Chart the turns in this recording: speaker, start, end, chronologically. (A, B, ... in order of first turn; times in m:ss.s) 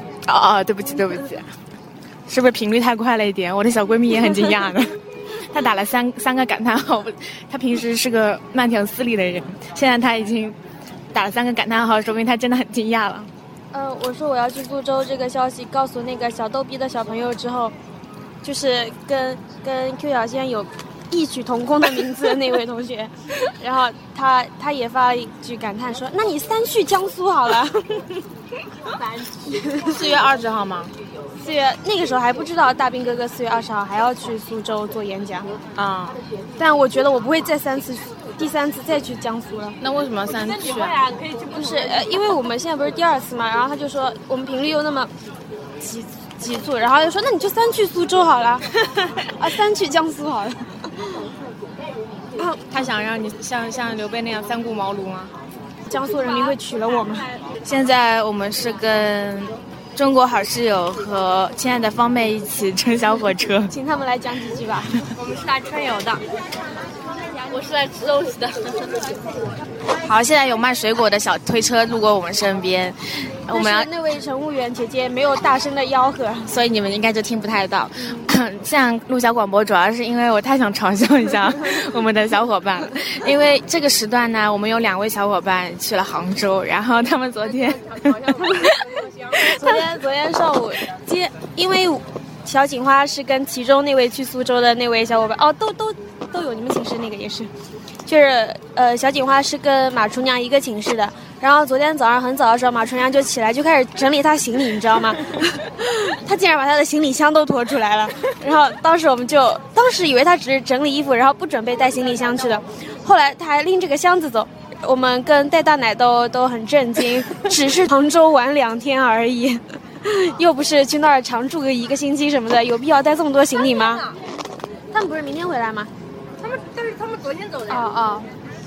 0:00.2-0:01.5 A
0:02.3-0:10.6 A
0:11.1-0:13.3 A
0:13.7-0:17.7 B
0:18.4-0:28.2 B
0:28.9-0:29.5 C
0:29.4-0:30.1 B
0:29.8-0:30.9 A
0:31.4-0:35.5 B
0:35.7-0:36.2 A
0:36.6-0:39.8 B
0:39.8-0:41.0 A
0:40.3-0:42.1 C
0:41.5-0:45.1 B
0:45.8-0:50.9 B
0:52.4-0:55.3 A
0:55.9-0:57.3 B
0:56.1-0:57.4 C
0:57.6-1:03.7 A
1:03.7-1:05.0 B
1:05.1-1:06.2 C
1:07.3-1:09.1 C
1:10.0-1:13.9 A
1:13.5-1:16.5 B
1:16.4-1:28.7 A
1:18.0-1:18.3 B
1:27.2-1:29.5 C
1:29.3-1:29.8 A
1:29.4-1:37.5 B
1:38.0-2:04.1 B
2:03.6-2:04.2 C
2:04.9-2:05.9 B
2:06.4-2:07.9 C
2:07.7-2:08.3 B